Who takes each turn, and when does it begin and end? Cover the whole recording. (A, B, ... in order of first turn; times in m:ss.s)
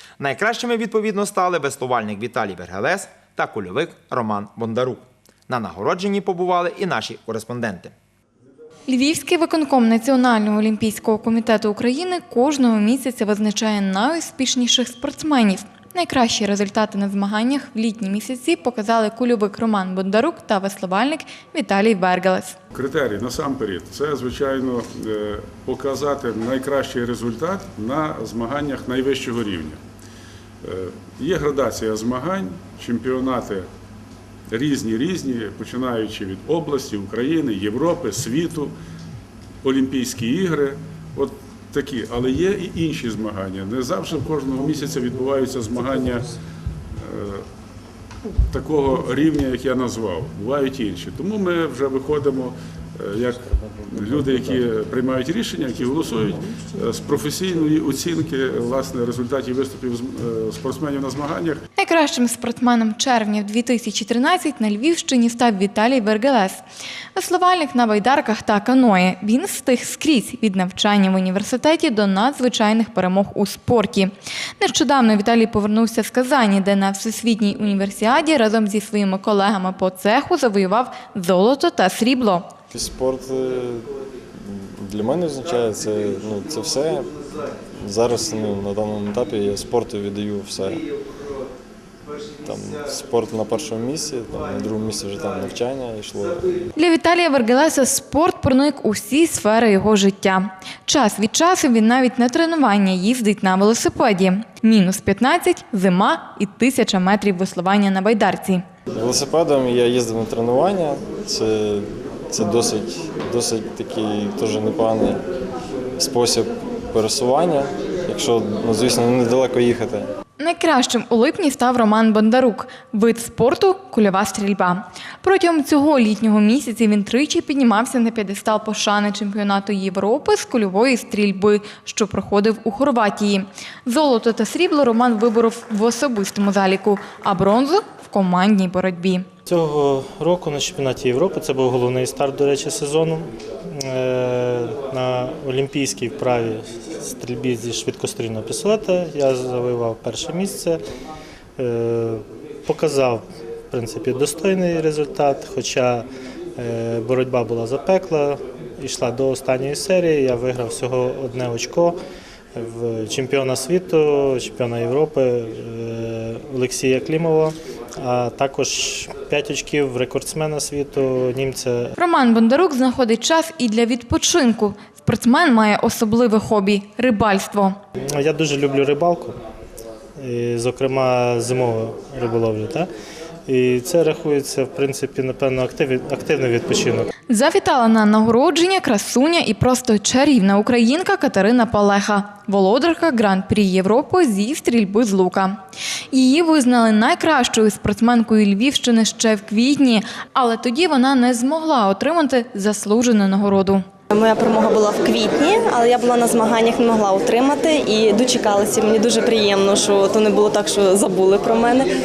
0:00.2-0:07.9 A
0:08.9-0:22.6 B
0:22.7-0:29.8 C
0:30.6-0:33.7 C
0:34.5-0:38.7 C
0:39.6-0:46.3 C
0:46.9-0:47.5 C
0:48.5-1:01.6 C
0:53.5-0:54.5 D
1:01.8-1:06.6 B
1:07.2-1:22.5 B
1:22.7-1:30.9 D
1:32.4-1:36.7 D
1:36.8-1:48.7 B
1:48.9-1:55.2 D
1:56.0-2:00.1 D
2:00.4-2:19.3 B
2:19.5-2:30.8 E
2:31.6-2:42.0 E
2:42.5-2:52.0 E
2:52.0-2:57.8 B
2:58.0-2:59.4 E
3:00.2-3:02.9 E
3:03.5-3:07.1 E
3:07.3-3:23.9 B
3:24.1-3:31.9 F